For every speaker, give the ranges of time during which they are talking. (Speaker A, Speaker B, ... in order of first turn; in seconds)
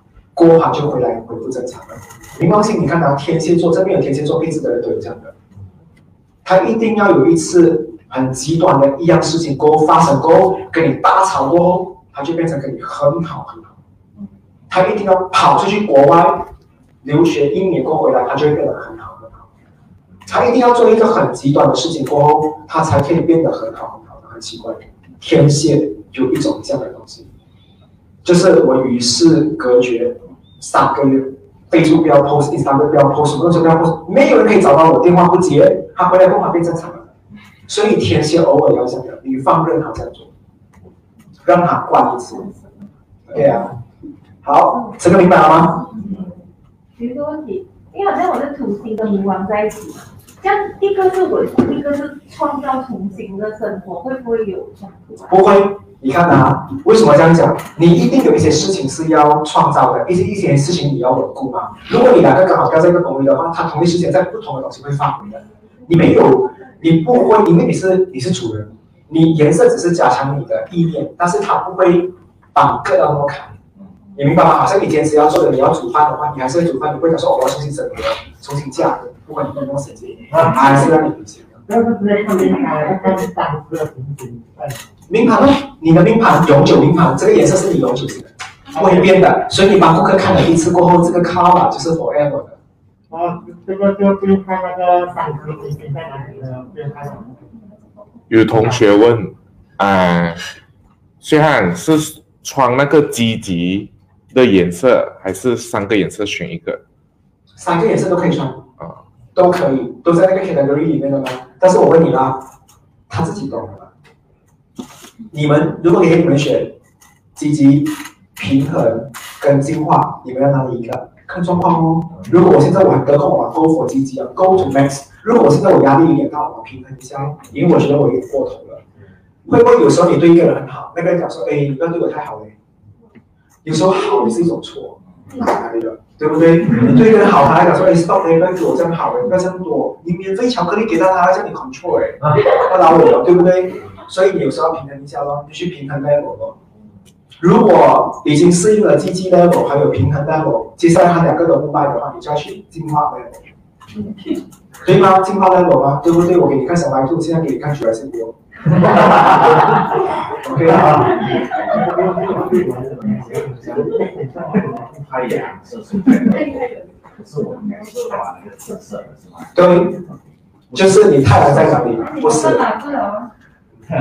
Speaker A: 0.3-5.3, 6.5-13.8, 14.7-16.5, 17.0-19.5, 20.3-27.3, 28.2-37.1, 37.7-40.3, 41.4-42.5, 43.3-43.8, 44.4-45.9, 55.3-73.6, 74.2-81.6, 85.1-92.6, 107.6-108.7, 109.3-112.5, 113.1-113.9, 115.3-116.8, 117.4-128.8, 129.4-132.6, 133.6-146.6, 147.4-153.5, 154.8-158.4, 160.4-161.2, 169.5-170.1, 170.7-172.7
Speaker B: 47.0-55.1, 172.1-173.3
Speaker C: 81.7-84.8, 93.1-97.4
Speaker D: 98.3-100.5, 101.2-106.8
Speaker E: 161.8-169.6